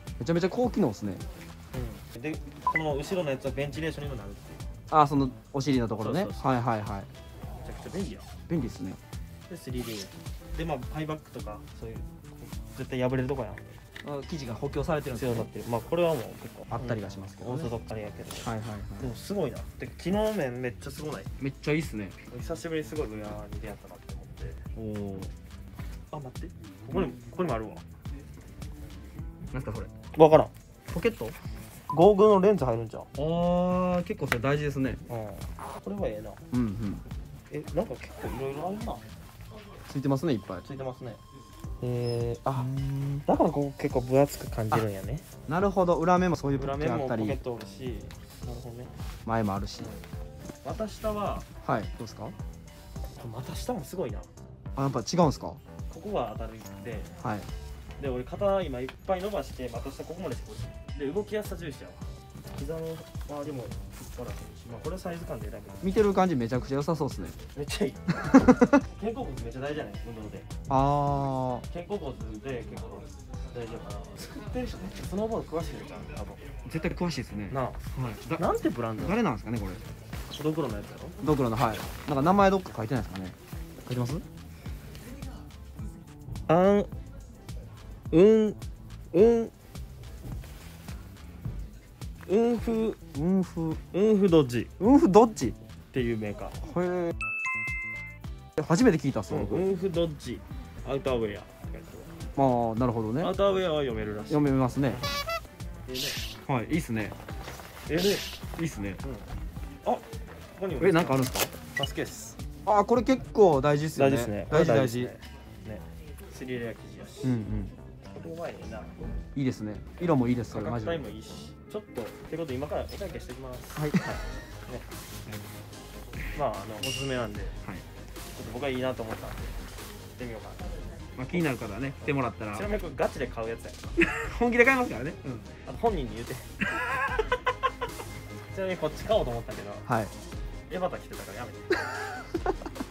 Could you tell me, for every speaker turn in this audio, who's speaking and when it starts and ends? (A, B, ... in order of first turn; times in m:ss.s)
0:00.2-0:01.2 A
0:01.7-0:04.6 B
0:04.9-0:07.1 A
0:06.0-0:06.4 B
0:07.6-0:08.3 B
0:08.5-0:09.0 A
0:09.5-0:13.8 B
0:14.0-0:15.5 A
0:15.1-0:21.3 B
0:16.7-0:17.7 A
0:18.4-0:19.1 A
0:21.4-0:22.2 A
0:22.3-0:24.6 B
0:24.8-0:25.3 A
0:26.1-0:27.8 B
0:29.5-0:29.9 A
0:30.1-0:30.5 B
0:30.9-0:31.4 A
0:31.9-0:33.1 B
0:33.2-0:35.0 A
0:35.1-0:36.4 B
0:36.5-0:37.0 A
0:37.5-0:39.0 B
0:39.9-0:40.6 A
0:40.6-0:41.2 B
0:41.8-0:42.7 B
0:42.5-0:43.3 A
0:43.2-0:45.3 B
0:45.5-0:47.4 A
0:46.5-0:48.9 B
0:49.2-0:49.9 A
0:49.8-0:50.0 B
0:50.6-0:51.5 B
0:51.6-0:52.4 A
0:53.2-0:54.3 B
0:54.8-0:55.6 A
0:55.9-0:57.1 B
0:57.2-0:57.5 A
0:58.0-1:06.0 B
1:05.8-1:07.4 A
1:07.5-1:10.5 B
1:08.3-1:08.8 A
1:10.7-1:11.7 A
1:11.7-1:16.4 B
1:16.6-1:18.4 A
1:17.5-1:17.8 B
1:18.4-1:19.2 B
1:19.0-1:19.8 A
1:20.3-1:21.2 B
1:21.2-1:24.2 A
1:26.5-1:26.9 B
1:28.1-1:28.6 B
1:29.1-1:29.5 B
1:32.3-1:33.0 B
1:33.1-1:33.8 A
1:33.9-1:34.7 B
1:34.8-1:35.6 A
1:35.9-1:36.6 B
1:36.6-1:37.1 A
1:38.6-1:39.7 A
1:39.3-1:42.1 B
1:42.4-1:43.3 A
1:43.2-1:45.1 B
1:44.3-1:45.0 A
1:45.9-1:46.2 B
1:46.5-1:47.2 A
1:47.9-1:48.3 B
1:48.6-1:49.0 A
1:50.6-1:52.4 B
1:50.8-1:51.5 A
1:52.6-1:55.1 A
1:54.0-1:57.4 B
1:57.2-1:57.7 A
1:58.1-1:59.0 B
1:59.4-2:01.0 A
2:00.5-2:04.9 B
2:03.8-2:04.1 A
2:06.3-2:07.6 B
2:08.3-2:09.6 B
2:10.2-2:10.7 B
2:11.2-2:12.7 A
2:12.5-2:13.9 B
2:14.0-2:15.5 A
2:15.6-2:16.5 B
2:18.5-2:19.8 B
2:19.9-2:20.1 A
2:20.7-2:21.7 B
2:22.0-2:22.5 A